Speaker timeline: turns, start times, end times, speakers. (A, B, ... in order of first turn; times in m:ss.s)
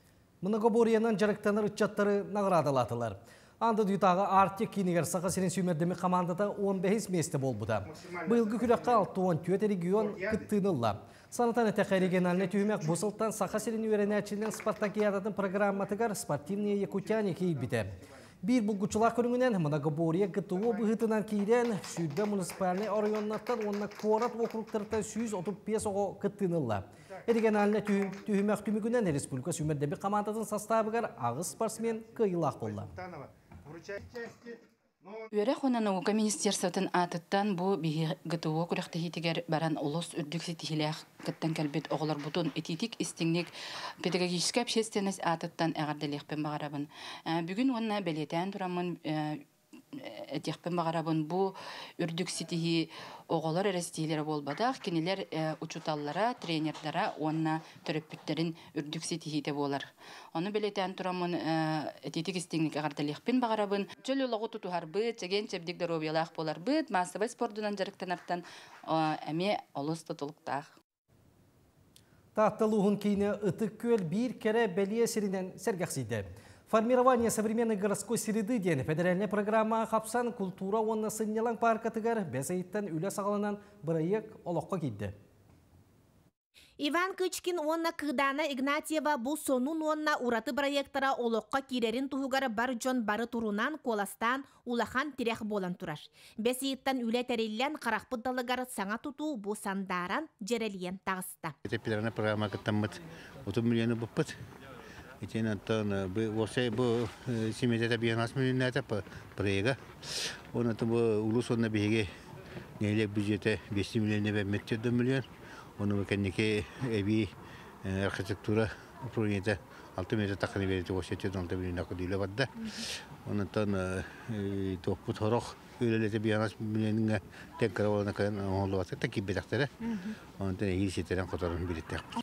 0:00.4-0:32.9 A
0:35.3-0:49.4 B
0:49.9-1:10.7 B
1:12.3-1:25.1 A
1:26.8-1:41.6 C
1:41.6-1:44.3 D
1:45.2-1:52.1 D
1:52.8-1:55.3 D
1:55.8-1:57.3 D
1:57.8-2:09.7 D
2:09.8-2:10.2 C
2:10.4-2:12.0 D